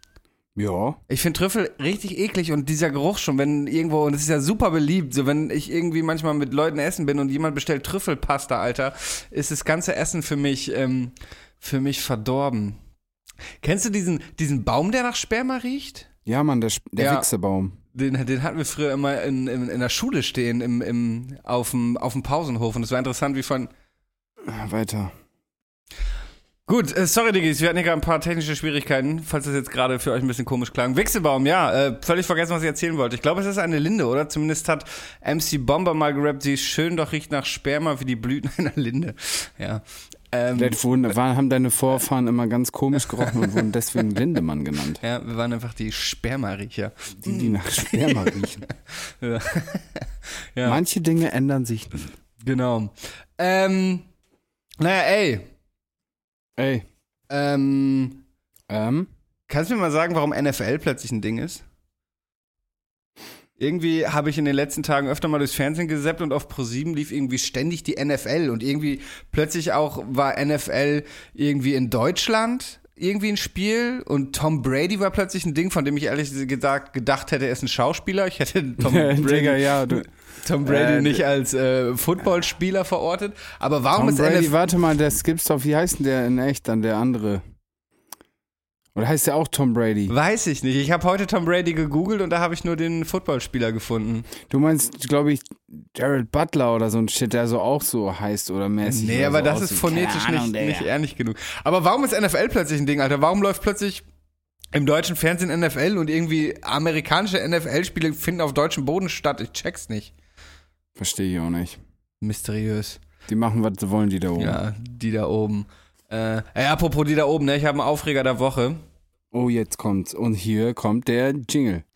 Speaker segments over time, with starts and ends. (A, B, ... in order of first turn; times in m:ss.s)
0:00.6-0:01.0 A
0:01.1-0:12.8 B
0:13.6-0:16.1 B
0:16.3-0:17.8 A
0:17.0-0:17.3 B
0:17.9-0:23.7 B
0:24.4-0:25.2 A
0:26.7-0:40.8 B
0:40.6-0:45.0 A
0:45.0-0:48.4 B
0:47.2-0:48.6 A
0:49.0-0:50.8 B
0:50.6-0:52.0 A
0:52.4-0:54.1 B
0:54.8-0:55.5 B
0:56.6-0:56.9 A
0:57.3-0:58.2 B
0:58.7-0:59.1 A
0:59.5-1:01.6 B
1:03.6-1:24.5 B
1:18.8-1:20.1 A
1:20.6-1:21.2 A
1:23.9-1:27.4 A
1:29.0-1:30.1 A
1:30.1-1:34.3 B
1:34.5-1:40.9 A
1:38.8-1:44.0 B
1:44.7-1:50.1 B
1:51.0-1:51.8 A
1:52.2-1:53.0 B
1:53.3-1:54.6 A
1:54.4-1:58.8 B
1:59.3-2:01.8 A